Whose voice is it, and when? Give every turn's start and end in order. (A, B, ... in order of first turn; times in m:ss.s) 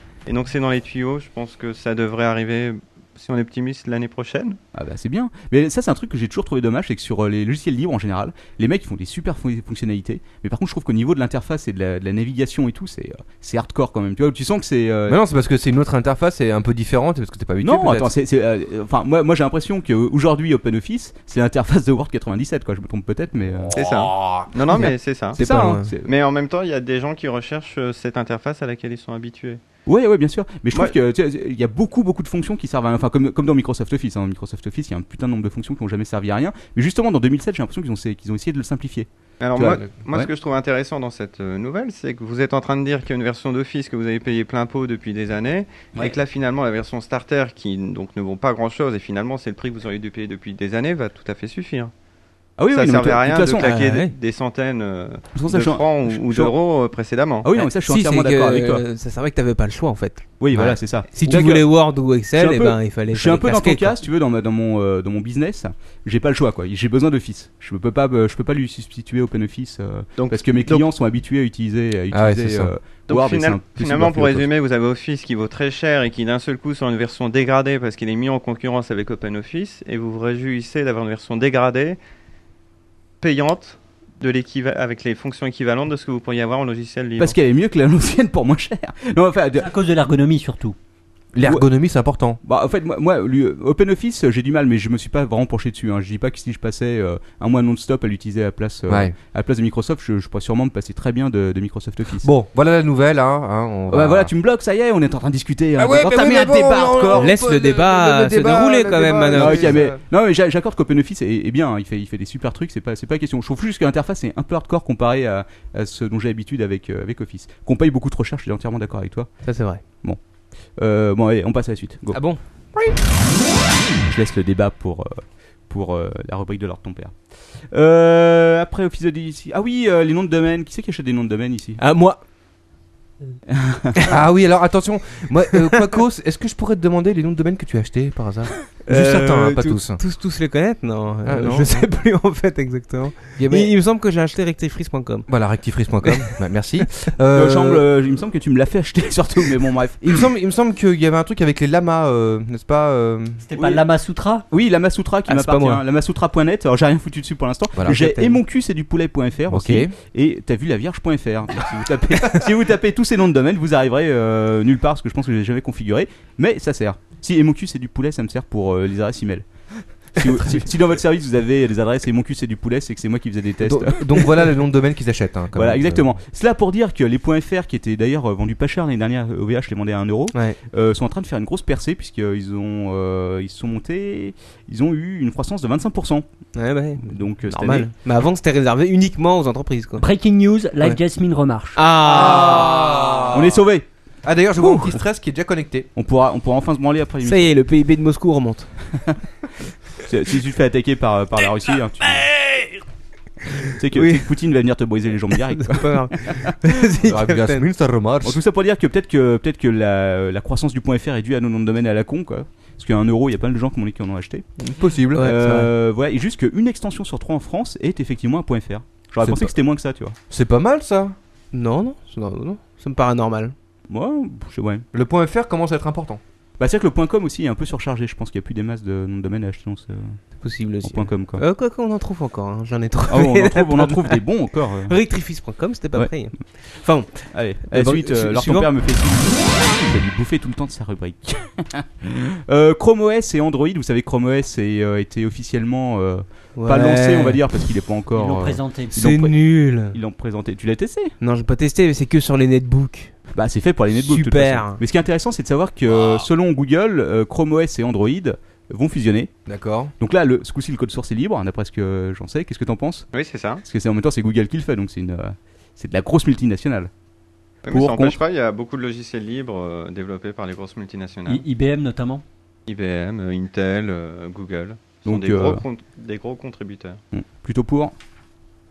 0:00.2-0:04.6 A
0:04.7-0:15.2 B
0:15.1-0:18.1 C
0:17.6-0:23.8 B
0:23.7-0:25.4 A
0:24.8-0:26.1 B
0:25.4-0:25.9 D
0:26.0-0:29.6 A
0:29.8-0:40.3 B
0:39.4-0:51.9 A
0:52.6-0:53.7 B
0:52.7-0:57.5 A
0:53.6-0:54.1 D
0:55.3-0:56.5 B
0:57.4-0:58.8 B
0:57.5-1:03.9 D
1:00.4-1:14.5 B
1:10.2-1:10.8 A
1:12.1-1:12.7 C
1:13.1-1:22.0 A
1:23.2-1:27.3 A
1:27.2-1:29.7 B
1:29.6-1:30.8 E
1:31.3-1:32.4 C
1:32.4-1:42.3 B
1:38.9-1:39.1 C
1:42.2-1:44.3 C
1:43.9-1:47.3 B
1:45.8-1:50.0 C
1:47.1-1:49.8 D
1:49.3-2:00.2 B
1:59.4-1:59.8 D
2:00.8-2:02.2 B
2:02.1-2:02.9 D
2:04.1-2:07.2 B
2:07.7-2:11.8 B
2:11.8-2:12.2 D
2:13.5-2:14.0 B
2:14.1-2:20.0 C
2:18.9-2:25.3 D
2:21.2-2:21.8 C
2:23.4-2:23.7 C
2:25.3-2:27.8 C
2:27.3-2:30.1 B
2:30.0-2:33.4 C
2:33.4-2:34.4 E
2:33.6-2:33.8 B
2:34.5-2:54.4 B
2:35.3-2:35.8 D
2:37.9-2:38.4 D
2:39.5-2:39.9 C
2:53.6-2:56.1 C
2:55.5-3:06.2 B
3:06.5-3:10.0 D
3:07.0-3:07.9 B
3:10.0-3:11.8 E
3:11.7-3:13.4 D
3:12.0-3:13.6 C
3:13.3-3:13.8 B
3:14.2-3:15.9 C
3:14.6-3:14.9 D
3:16.0-3:17.5 B
3:17.2-3:18.7 D
3:20.0-3:22.6 B
3:23.6-3:26.6 B
3:23.9-3:24.3 D
3:25.6-3:27.6 D
3:27.0-3:28.4 C
3:28.2-3:34.5 B
3:34.6-3:35.3 C
3:35.1-3:35.7 D
3:35.1-3:40.2 B
3:39.2-3:39.5 C
3:40.3-3:41.1 C
3:41.5-3:43.5 D
3:43.9-3:44.8 B
3:44.9-3:46.2 C
3:46.6-3:50.2 B
3:50.4-3:54.2 D
3:50.8-3:51.4 B
3:53.1-3:55.0 B
3:54.8-3:58.7 D
3:55.9-4:11.1 B
4:06.6-4:07.7 D
4:08.1-4:09.0 E
4:08.9-4:10.0 D
4:11.2-4:13.1 D
4:13.3-4:19.3 B
4:13.9-4:14.8 D
4:19.5-4:19.9 C
4:20.0-4:23.1 B
4:23.1-4:23.6 A
4:23.6-4:26.9 B
4:27.6-4:31.4 A
4:27.7-4:28.2 B
4:31.3-4:32.2 E
4:32.7-4:37.0 A
4:35.0-4:35.6 B
4:37.1-4:37.9 B